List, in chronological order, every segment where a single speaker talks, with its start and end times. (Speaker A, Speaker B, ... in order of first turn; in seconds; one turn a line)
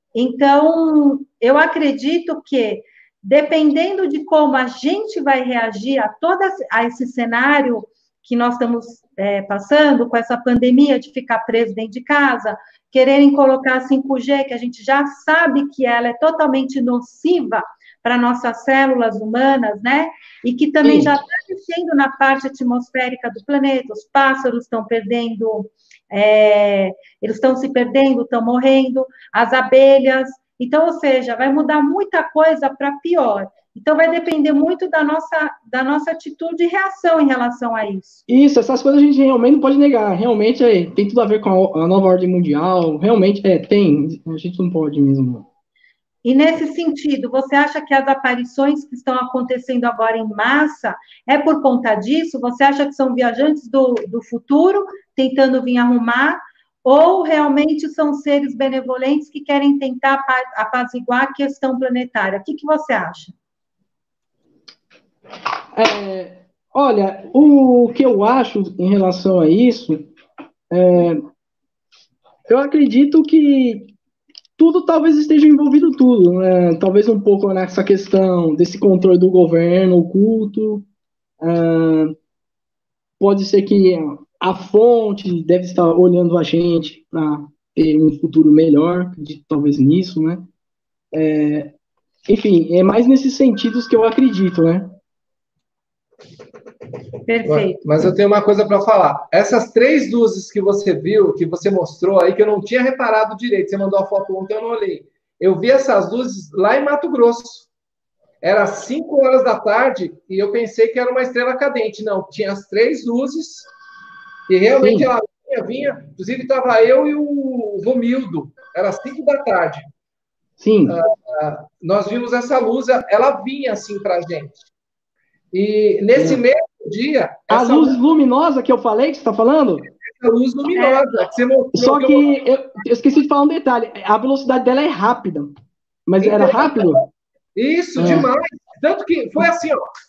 Speaker A: 0.1-38.2
Speaker B: 38.3-45.5
Speaker A: 46.2-63.3
Speaker B: 65.7-70.1
Speaker B: 70.7-71.2
Speaker B: 72.5-73.9
Speaker B: 74.6-80.9
Speaker B: 81.4-82.2
Speaker B: 83.2-90.5
Speaker B: 91.1-91.7
Speaker B: 92.3-94.9
Speaker A: 97.3-97.8
Speaker C: 97.4-107.7
Speaker C: 108.4-113.7
Speaker C: 114.5-119.8
Speaker B: 114.8-115.1
Speaker B: 120.6-121.0
Speaker C: 120.9-124.5
Speaker C: 125.5-128.0
Speaker B: 126.2-126.4
Speaker B: 127.5-129.9
Speaker C: 130.1-132.2
Speaker A: 130.7-131.1
Speaker B: 131.7-135.5
Speaker B: 136.1-137.1
Speaker C: 136.2-136.9
Speaker C: 137.5-139.8
Speaker B: 138.0-138.3